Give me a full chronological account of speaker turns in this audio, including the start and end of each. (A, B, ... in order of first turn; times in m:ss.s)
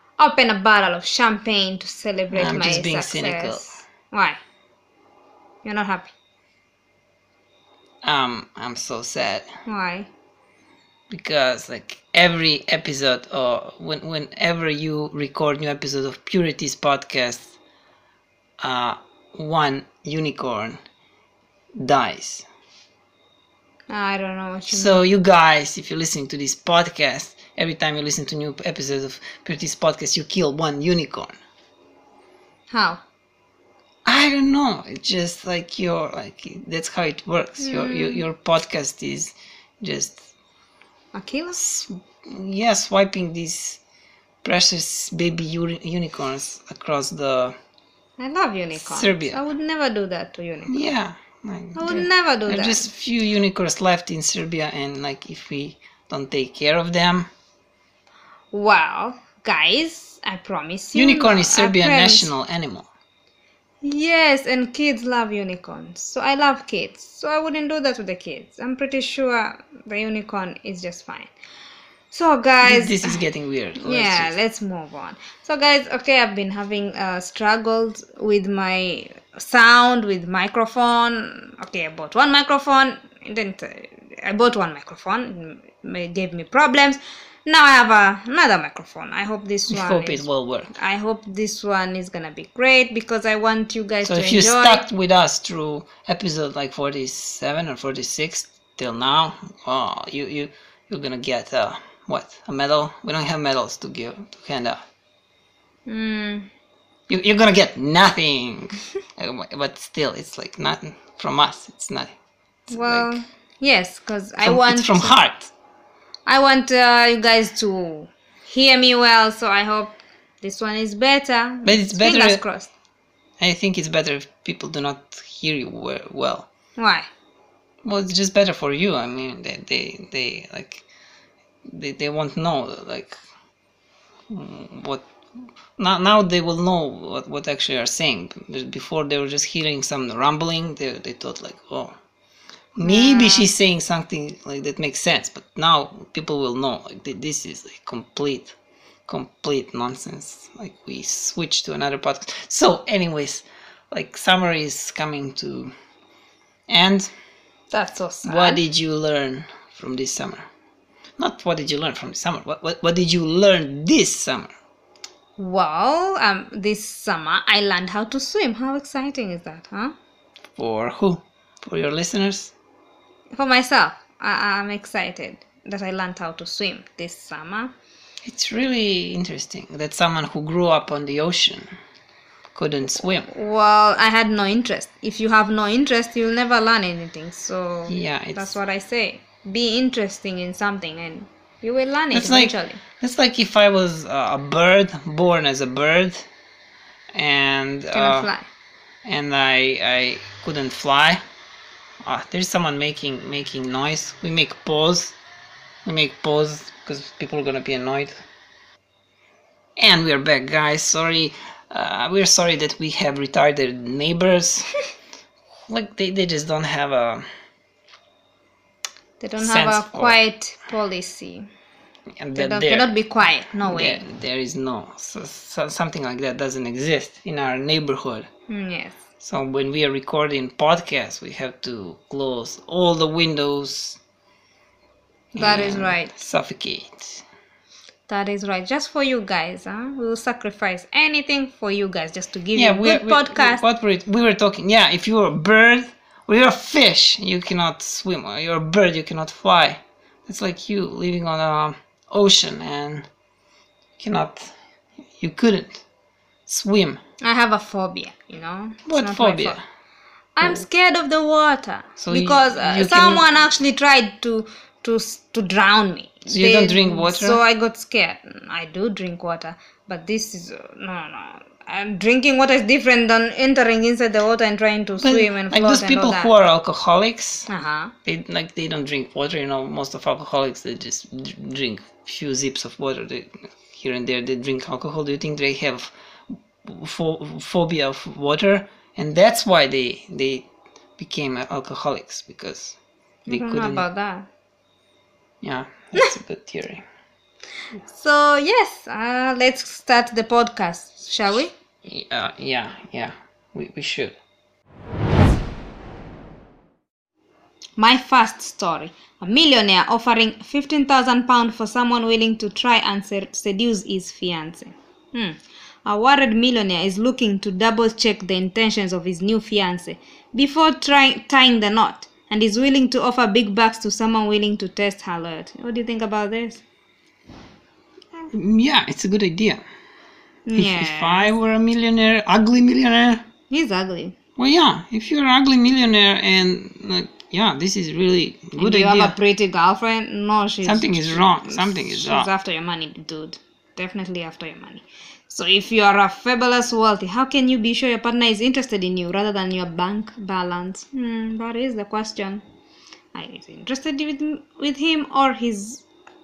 0:00.2-0:04.4 A
0:02.3-0:03.8 B
0:05.6-0:06.1 A
0:08.0-0:09.5 B
0:09.6-0:10.1 A
0:11.1-0:17.5 B
0:18.6-0:20.8 B
0:21.8-0:22.4 B
0:23.9-0:25.0 A
0:24.7-0:31.3 B
0:32.7-0:33.0 A
0:34.0-0:40.2 B
0:37.6-0:38.3 A
0:41.1-0:41.6 A
0:41.6-0:43.8 B
0:44.4-0:47.6 B
0:48.2-0:50.8 A
0:48.8-0:49.4 B
0:50.7-0:57.3 B
0:51.7-0:52.9 A
0:58.5-1:02.3 A
1:00.9-1:02.8 B
1:03.8-1:11.3 A
1:12.1-1:13.2 A
1:12.6-1:14.3 B
1:13.8-1:34.9 A
1:29.7-1:30.7 B
1:34.0-1:44.8 B
1:45.8-1:46.5 A
1:47.1-1:52.1 B
1:52.7-1:53.2 B
1:52.7-1:55.2 A
1:54.4-1:55.5 B
1:56.2-2:02.7 A
2:01.6-2:02.4 B
2:03.4-2:06.5 B
2:06.8-2:07.1 A
2:07.8-2:10.8 B
2:11.7-2:13.2 B
2:14.3-2:15.1 B
2:15.8-2:22.0 B
2:22.7-2:28.5 B
2:22.8-2:23.5 A
2:29.0-2:35.7 B
2:36.7-2:37.1 B
2:37.7-2:38.6 A
2:38.2-2:40.4 B
2:41.2-2:44.5 B
2:45.4-2:49.9 A
2:50.6-2:52.5 B
2:53.3-2:57.7 A
2:58.2-3:01.7 B
3:02.5-3:03.3 B
3:03.2-3:12.8 A
3:07.9-3:08.5 B
3:12.1-3:16.3 B
3:17.1-3:18.3 B
3:17.9-3:18.5 A
3:19.0-3:21.2 B
3:22.0-3:25.2 B
3:25.8-3:28.2 B
3:29.8-3:34.7 B
3:35.7-3:37.2 B
3:39.2-3:41.5 A
3:39.4-3:40.2 B
3:42.2-3:42.9 B
3:42.3-3:44.0 A
3:43.6-3:48.3 B
3:48.5-3:49.0 A
3:49.2-3:54.0 B
3:55.3-3:57.2 B
3:55.4-3:56.1 A
3:58.1-4:03.6 A
4:02.5-4:13.1 B
4:14.0-4:14.5 B
4:15.2-4:15.8 B
4:16.5-4:17.0 B
4:17.2-4:19.6 A
4:18.9-4:19.6 B
4:20.4-4:36.3 A
4:22.0-4:23.3 B
4:26.3-4:27.4 B
4:35.0-4:37.5 B
4:37.5-4:37.9 A
4:38.0-4:45.9 B
4:46.6-4:50.5 B
4:51.0-4:53.8 B
4:53.3-4:54.3 A
4:55.4-4:56.8 B
4:57.8-5:01.5 A
5:01.8-5:04.2 B
5:07.8-5:26.6 A
5:28.3-5:29.6 B
5:30.4-5:31.3 A
5:30.5-5:33.2 B
5:33.5-5:34.1 A
5:34.4-5:39.2 B
5:38.6-5:52.4 A
5:40.6-5:42.3 B
5:53.1-5:55.8 A